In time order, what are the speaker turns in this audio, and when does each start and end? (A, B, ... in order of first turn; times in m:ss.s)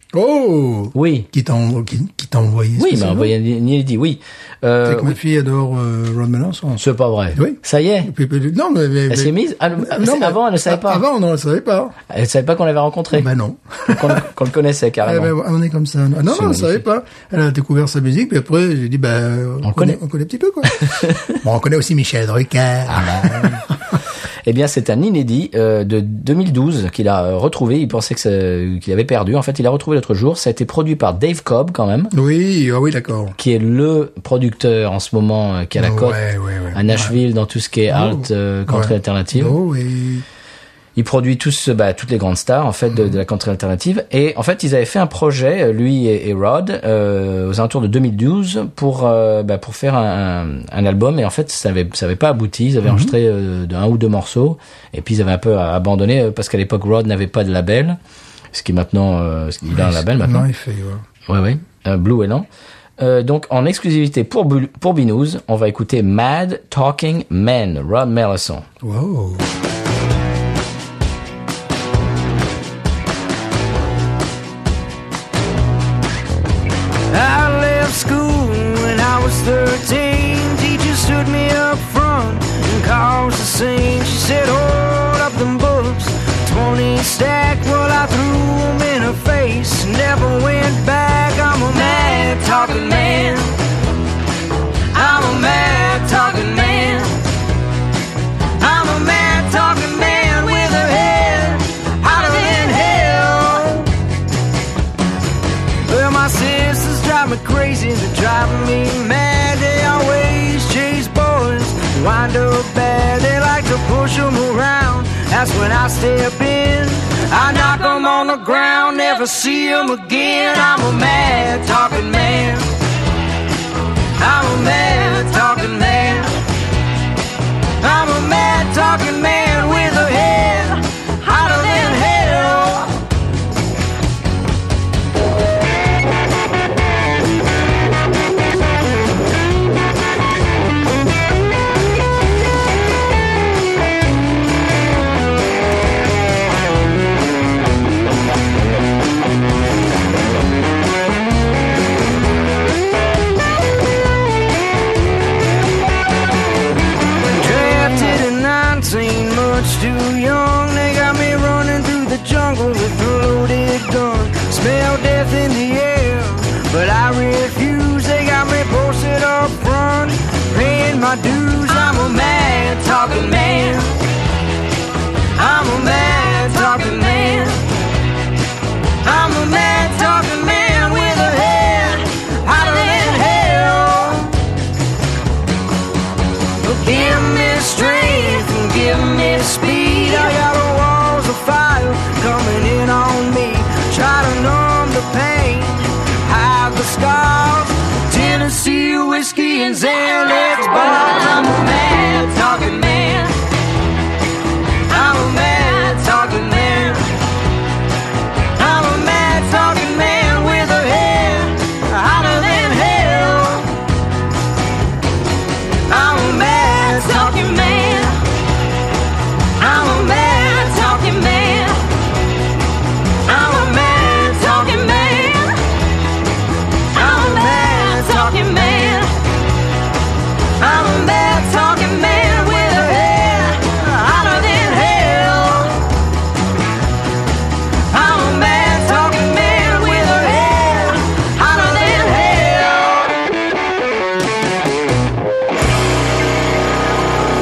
0:00.1-0:03.3 A
0:00.9-0:01.3 B
0:02.8-0:05.2 B
0:04.8-0:06.8 A
0:06.8-0:08.1 B
0:07.3-0:11.9 A
0:09.1-0:11.0 B
0:12.1-0:13.3 B
0:13.1-0:14.3 A
0:13.9-0:15.3 B
0:15.0-0:23.7 A
0:16.3-0:16.8 B
0:19.6-0:20.0 B
0:20.7-0:21.4 B
0:22.9-0:23.6 B
0:24.4-0:32.1 B
0:32.1-0:33.3 A
0:33.4-0:36.2 B
0:35.8-0:37.2 A
0:36.7-0:39.6 B
0:37.9-0:40.2 A
0:41.0-0:58.0 B
0:52.8-0:53.1 A
0:58.5-1:00.4 B
0:59.7-1:01.0 A
1:01.3-1:02.4 B
1:03.0-1:08.7 B
1:08.8-1:09.5 A
1:17.1-1:33.6 C
1:34.9-1:37.2 C
1:38.6-1:43.9 C
1:45.9-2:02.7 C
2:04.2-2:06.3 C
2:07.8-2:13.0 C
2:37.3-2:54.0 C
2:55.4-2:57.6 C
2:59.0-3:04.3 C
3:06.6-3:23.4 C
3:24.9-3:27.1 C
3:28.6-3:33.7 C
3:35.9-3:38.2 C
3:39.6-3:41.9 C
3:43.2-3:45.6 C
3:46.9-3:49.2 C
3:50.6-3:55.9 C
3:57.9-4:03.2 C